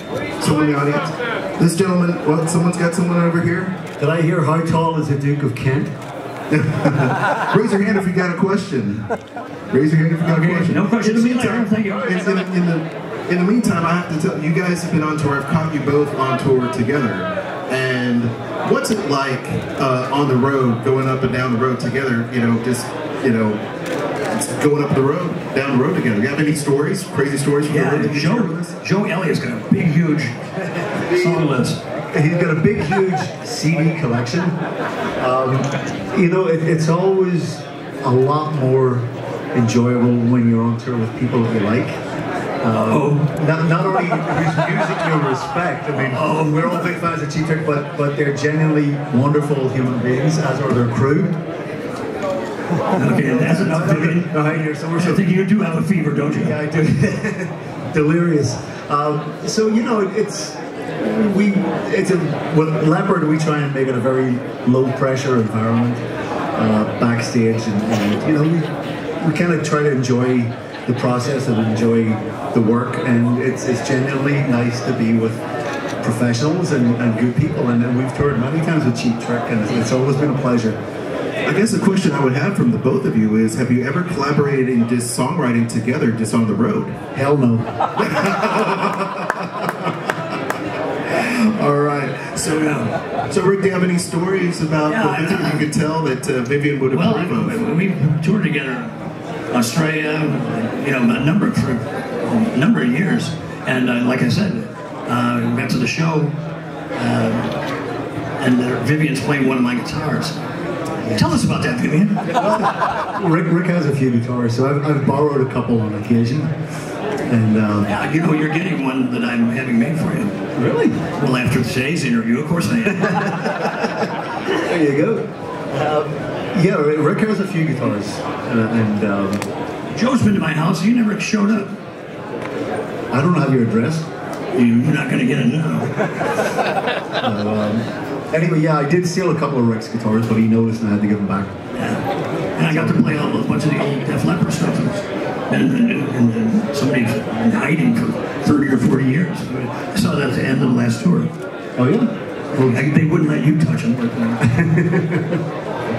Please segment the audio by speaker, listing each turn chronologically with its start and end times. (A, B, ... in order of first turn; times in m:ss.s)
0:00.4-0:03.8 A
0:04.0-0:05.9 B
0:06.5-0:09.1 A
0:09.7-0:23.6 A
0:10.2-0:12.2 C
0:24.3-0:28.8 A
0:27.7-0:30.4 C
0:30.8-0:31.4 B
0:31.0-0:31.8 C
0:32.1-0:34.5 B
0:35.2-0:42.0 B
0:42.6-0:51.4 B
0:42.7-0:43.3 C
0:45.9-0:46.9 C
0:52.9-0:56.6 C
0:53.0-0:55.3 B
0:56.3-1:06.0 B
1:06.5-1:15.4 B
1:16.0-1:20.8 B
1:21.4-1:27.0 A
1:27.1-1:27.7 B
1:28.0-1:29.4 A
1:31.1-1:37.6 A
1:32.4-1:32.9 C
1:34.8-1:35.7 C
1:36.9-1:38.9 C
1:39.5-1:46.4 C
1:46.9-1:47.5 C
1:48.4-1:50.4 C
1:51.0-1:52.3 C
1:52.4-1:56.5 B
1:57.3-1:57.9 B
1:57.8-2:00.4 C
2:00.6-2:01.0 B
2:01.1-2:03.6 C
2:02.8-2:09.4 B
2:09.9-2:11.8 C
2:13.1-2:14.1 B
2:14.5-2:15.9 C
2:17.2-2:21.5 B
2:21.7-2:22.0 C
2:22.6-2:31.3 C
2:22.6-2:23.2 B
2:31.8-2:32.8 B
2:32.6-2:34.5 C
2:34.4-2:35.4 B